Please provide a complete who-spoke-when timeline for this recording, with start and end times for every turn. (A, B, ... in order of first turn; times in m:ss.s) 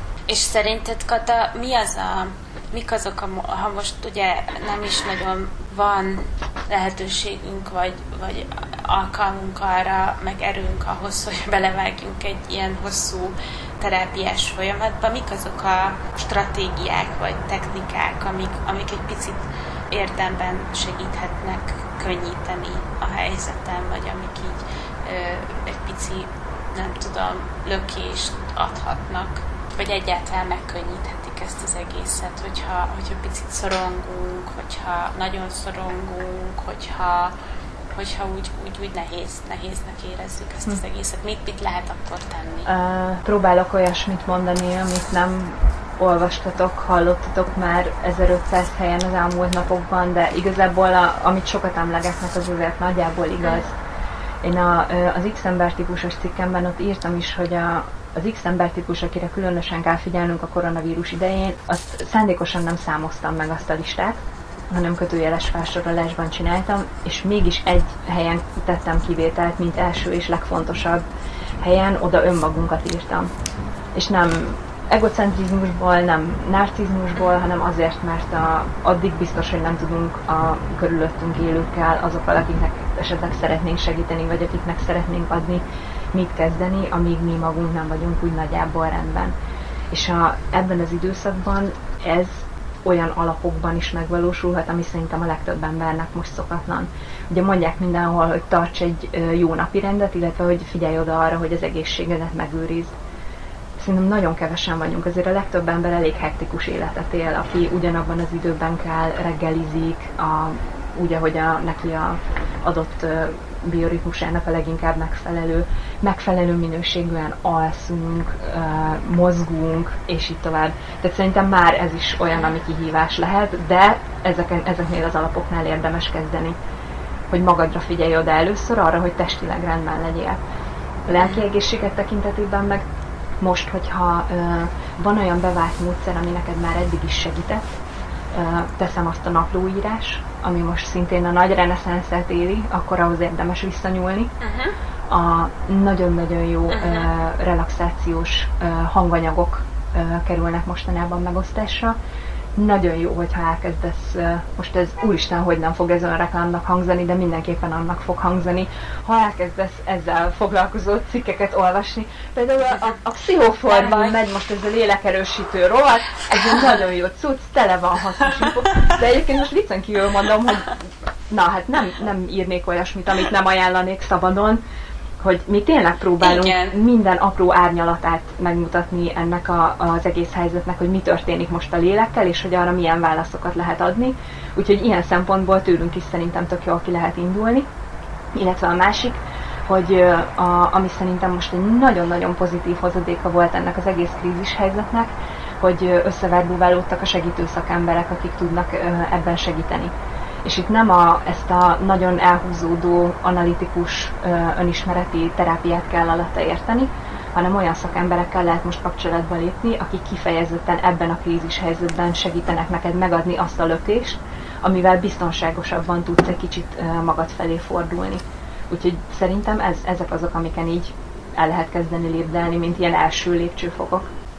0:00.3-0:37.3 A
0:37.9-0:42.7 A
0:42.7-0:53.8 B
0:54.4-1:11.0 B
1:11.6-1:13.3 B
1:13.9-1:29.3 B
1:29.9-1:42.9 B
1:43.8-2:06.5 B
2:07.3-2:10.4 B
2:11.1-2:12.8 B
2:13.4-2:17.7 B
2:18.3-2:24.3 B
2:24.4-2:24.7 A
2:25.1-2:32.0 B
2:26.7-2:27.1 A
2:32.6-2:50.8 B
2:43.7-2:44.2 A
2:51.3-2:54.6 B
2:55.2-3:07.7 B
2:56.2-2:56.8 A
3:08.3-3:19.9 B
3:20.4-3:44.1 B